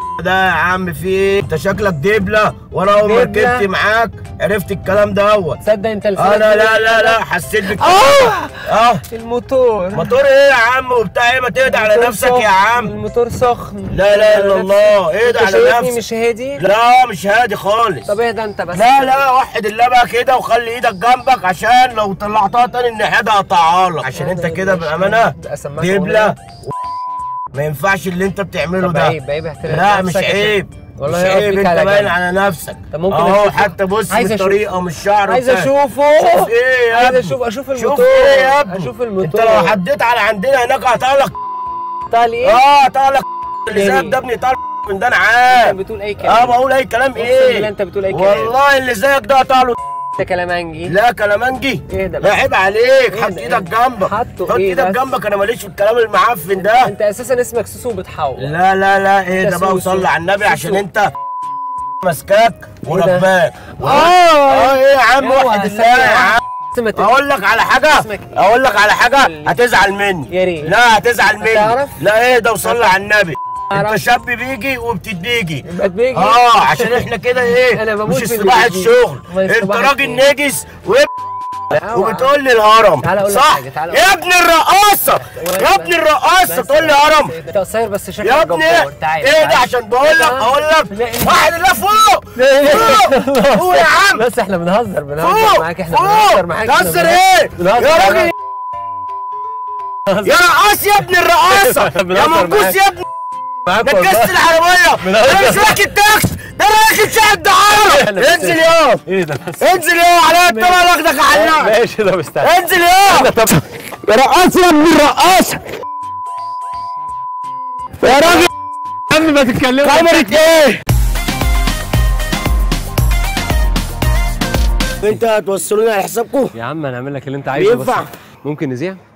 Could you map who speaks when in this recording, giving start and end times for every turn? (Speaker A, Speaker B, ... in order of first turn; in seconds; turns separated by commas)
Speaker A: 0.2-5.6, Speaker B: 2.9-3.6, Speaker B: 5.6-7.2, Speaker A: 6.2-9.0, Speaker B: 7.7-10.1, Speaker A: 9.9-12.9, Speaker B: 11.6-16.6, Speaker A: 13.9-16.0, Speaker A: 16.6-18.1, Speaker B: 18.1-19.2, Speaker A: 18.7-26.4, Speaker B: 24.1-26.3, Speaker A: 27.5-41.3, Speaker B: 28.8-32.1, Speaker B: 32.9-34.6, Speaker B: 35.3-39.8, Speaker B: 42.1-42.6, Speaker A: 42.4-49.8, Speaker B: 43.7-44.1, Speaker B: 45.5-46.6, Speaker B: 47.1-48.5, Speaker B: 50.2-50.9, Speaker A: 50.9-56.9, Speaker B: 51.9-52.4, Speaker B: 53.1-55.0, Speaker B: 56.6-58.5, Speaker A: 58.4-61.1, Speaker B: 59.4-60.8, Speaker A: 62.0-66.4, Speaker B: 62.9-63.3, Speaker B: 63.8-67.1, Speaker A: 66.9-81.1, Speaker B: 67.8-69.6, Speaker B: 70.3-70.7, Speaker B: 71.4-72.0, Speaker B: 73.7-74.0, Speaker B: 75.7-77.0, Speaker B: 77.6-80.3, Speaker A: 81.7-87.3, Speaker B: 81.8-82.3, Speaker B: 83.0-84.1, Speaker B: 85.2-85.9, Speaker B: 86.5-91.5, Speaker A: 88.2-94.2, Speaker B: 92.4-98.3, Speaker A: 95.2-98.3, Speaker B: 100.1-100.3, Speaker A: 100.2-103.0, Speaker B: 101.5-102.8, Speaker B: 103.7-104.4, Speaker A: 103.8-109.0, Speaker B: 105.0-105.8, Speaker B: 107.8-109.8, Speaker A: 109.6-111.8, Speaker B: 110.4-112.5, Speaker A: 112.4-113.3, Speaker B: 113.1-113.6, Speaker A: 114.1-115.7, Speaker A: 118.0-118.5, Speaker B: 118.1-118.4, Speaker B: 119.1-120.4, Speaker A: 119.8-120.8, Speaker A: 125.0-126.5, Speaker B: 126.5-129.0, Speaker A: 127.5-128.1